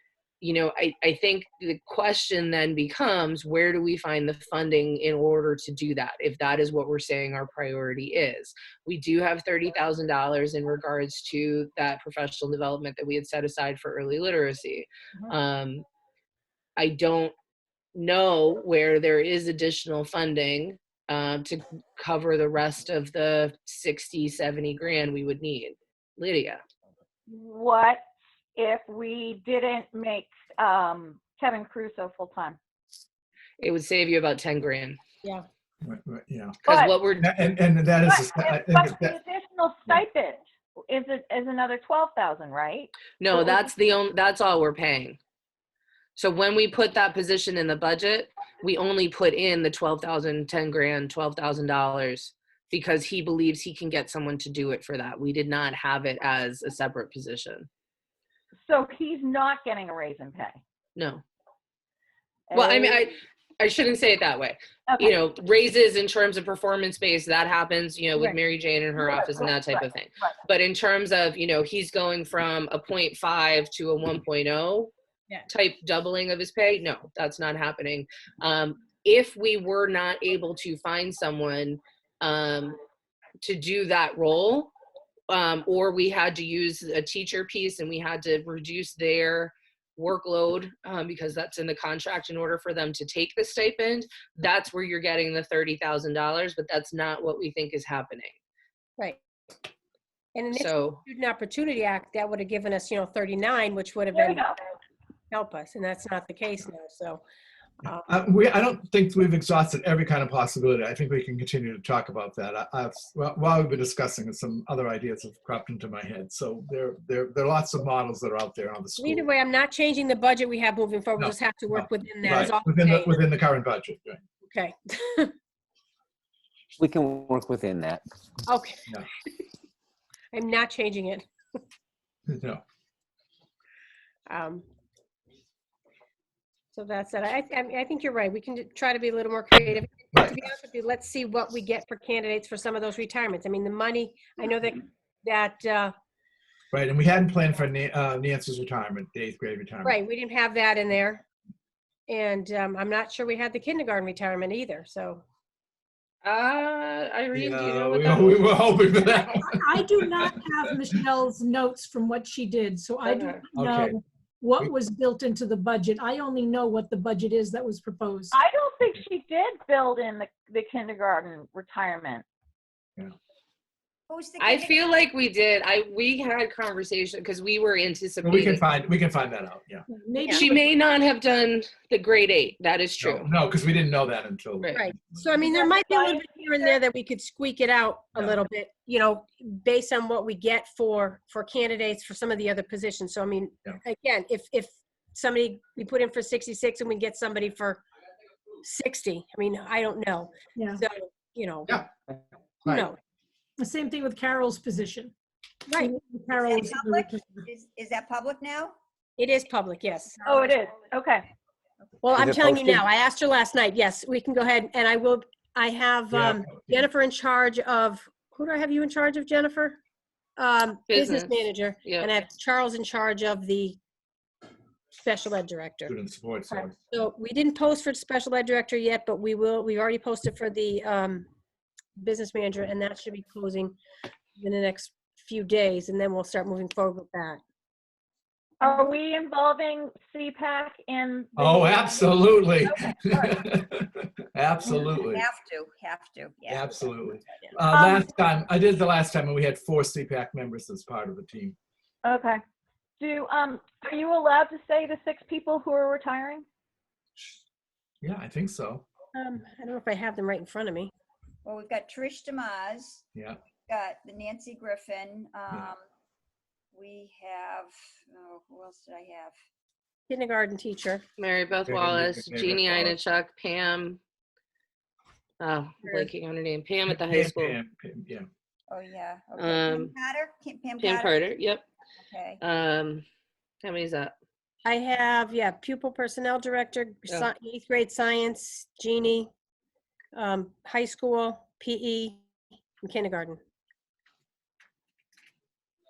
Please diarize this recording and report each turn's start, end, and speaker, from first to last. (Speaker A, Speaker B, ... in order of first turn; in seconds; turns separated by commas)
Speaker A: 0.4-15.8, Speaker A: 16.8-17.3, Speaker A: 17.9-26.6, Speaker B: 27.3-28.0, Speaker B: 28.6-32.6, Speaker A: 33.6-35.0, Speaker C: 35.8-36.6, Speaker B: 36.7-36.9, Speaker A: 36.7-37.3, Speaker C: 37.2-39.1, Speaker B: 38.0-43.6, Speaker A: 43.2-45.2, Speaker A: 46.1-57.7, Speaker B: 58.6-60.6, Speaker A: 61.0-61.2, Speaker B: 62.5-63.0, Speaker A: 62.5-74.9, Speaker B: 64.9-65.1, Speaker B: 69.0-70.3, Speaker A: 75.5-82.8, Speaker A: 83.4-84.7, Speaker A: 85.3-98.3, Speaker D: 100.3-104.4, Speaker A: 100.5-101.0, Speaker B: 104.1-104.6, Speaker D: 105.3-107.2, Speaker C: 108.0-119.2, Speaker D: 119.0-123.1, Speaker C: 121.2-124.2, Speaker D: 124.4-125.3, Speaker E: 126.8-128.0, Speaker D: 128.5-128.8, Speaker D: 130.3-131.2, Speaker C: 132.3-132.6, Speaker D: 134.3-134.6, Speaker D: 136.7-145.9, Speaker C: 140.1-140.4, Speaker C: 146.7-149.9, Speaker D: 149.8-151.2, Speaker D: 152.1-155.2, Speaker A: 156.2-158.8, Speaker C: 157.3-160.3, Speaker F: 159.5-168.4, Speaker A: 163.0-163.4, Speaker C: 163.5-163.9, Speaker B: 168.3-172.2, Speaker G: 174.1-174.8, Speaker A: 174.4-178.6, Speaker C: 178.2-179.8, Speaker F: 179.9-180.6, Speaker A: 180.2-183.3, Speaker C: 183.0-185.3, Speaker D: 184.7-197.8, Speaker B: 185.4-186.8, Speaker C: 188.1-188.4, Speaker D: 198.6-201.7, Speaker F: 200.5-200.8, Speaker D: 202.6-203.0, Speaker F: 203.6-205.1, Speaker F: 205.7-207.4, Speaker G: 206.4-208.7, Speaker D: 209.2-210.3, Speaker B: 210.2-211.3, Speaker D: 212.0-219.8, Speaker E: 212.1-212.8, Speaker C: 216.1-216.9, Speaker D: 220.4-223.8, Speaker A: 220.9-222.1, Speaker D: 225.0-225.9, Speaker C: 225.9-226.8, Speaker D: 226.9-231.3, Speaker D: 232.0-233.8, Speaker D: 234.4-237.4, Speaker B: 238.6-243.4, Speaker D: 238.6-238.9, Speaker C: 241.4-245.2, Speaker G: 244.8-246.8, Speaker C: 246.5-251.6, Speaker B: 247.7-248.1, Speaker B: 252.0-252.4, Speaker B: 253.0-256.4, Speaker C: 258.0-258.8, Speaker D: 259.1-260.9, Speaker G: 261.4-263.0, Speaker G: 263.7-265.8, Speaker G: 266.7-269.3, Speaker D: 270.1-271.0, Speaker A: 271.2-274.0, Speaker C: 271.7-273.0, Speaker A: 275.4-277.6, Speaker D: 275.8-276.1, Speaker C: 276.9-278.3, Speaker G: 278.7-281.1, Speaker A: 279.4-279.9, Speaker A: 280.8-281.6, Speaker G: 282.1-282.4, Speaker A: 282.4-283.0, Speaker A: 283.6-284.1, Speaker D: 284.6-289.3, Speaker D: 290.1-292.2, Speaker D: 292.8-293.4